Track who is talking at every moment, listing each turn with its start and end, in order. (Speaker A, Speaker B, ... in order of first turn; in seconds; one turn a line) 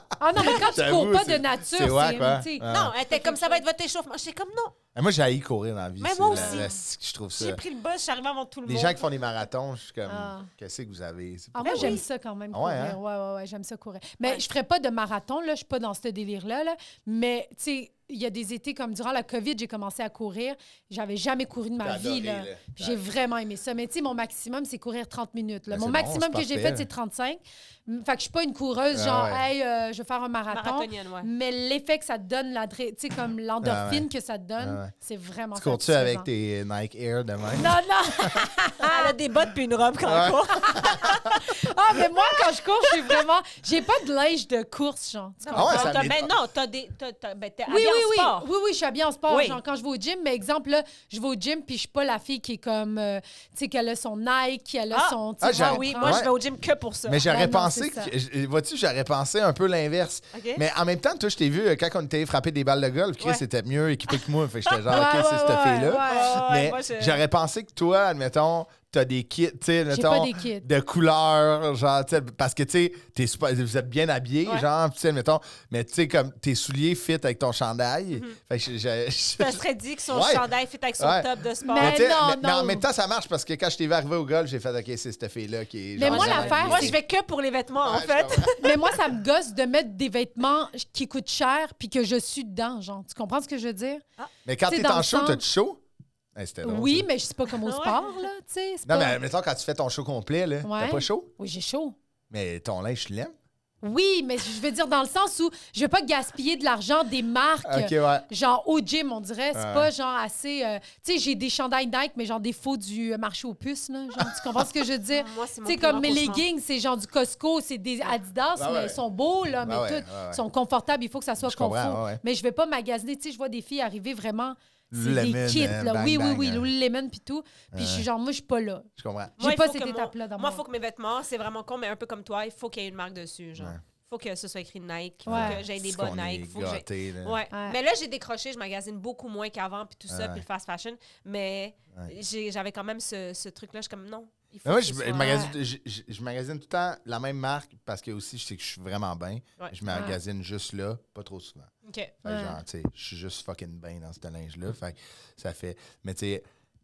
Speaker A: 0.2-3.6
Speaker B: 0.3-2.9
Speaker C: 2.7-4.8
Speaker B: 4.9-7.6
Speaker C: 6.0-6.7
Speaker A: 6.3-6.8
Speaker C: 7.3-9.0
Speaker B: 8.7-12.0
Speaker A: 10.1-10.5
Speaker A: 11.5-36.3
Speaker C: 11.6-12.0
Speaker B: 12.5-13.0
Speaker B: 21.8-23.0
Speaker B: 25.7-26.9
Speaker B: 28.9-29.4
Speaker C: 30.5-31.3
Speaker B: 33.6-34.1
Speaker B: 34.6-34.9
Speaker B: 35.5-38.4
Speaker A: 37.5-39.1
Speaker C: 38.8-41.4
Speaker B: 40.0-41.4
Speaker A: 40.5-46.0
Speaker C: 42.2-43.2
Speaker C: 45.4-48.5
Speaker B: 45.5-46.4
Speaker A: 47.7-56.2
Speaker C: 49.3-49.6
Speaker C: 54.9-57.2
Speaker B: 55.4-56.3
Speaker B: 57.1-87.0
Speaker A: 57.2-58.1
Speaker C: 60.3-60.6
Speaker C: 64.1-65.0
Speaker A: 64.9-66.4
Speaker C: 65.8-67.2
Speaker A: 69.9-70.6
Speaker C: 79.4-82.0
Speaker A: 81.7-82.8
Speaker A: 86.0-87.0
Speaker C: 86.0-89.0
Speaker B: 87.8-88.6
Speaker A: 88.6-94.0
Speaker B: 94.4-95.8
Speaker A: 94.7-95.4
Speaker B: 96.3-97.1
Speaker A: 96.6-99.2
Speaker C: 97.5-98.3
Speaker B: 98.8-101.3
Speaker A: 100.6-102.0
Speaker B: 102.3-103.3
Speaker A: 103.8-130.6
Speaker B: 107.6-108.3
Speaker B: 109.5-109.9
Speaker B: 114.2-114.8
Speaker C: 115.1-116.4
Speaker B: 118.5-119.0
Speaker B: 119.6-120.4
Speaker B: 121.4-122.2
Speaker B: 124.9-126.7
Speaker B: 127.7-128.1
Speaker B: 128.9-129.3
Speaker C: 129.4-145.5
Speaker B: 133.6-133.8
Speaker B: 135.2-137.4
Speaker A: 135.3-135.6
Speaker A: 137.5-137.8
Speaker B: 140.1-140.4
Speaker B: 144.6-151.7
Speaker A: 145.2-145.5
Speaker A: 149.9-150.2
Speaker C: 151.8-152.1
Speaker B: 152.2-156.4
Speaker A: 152.2-152.6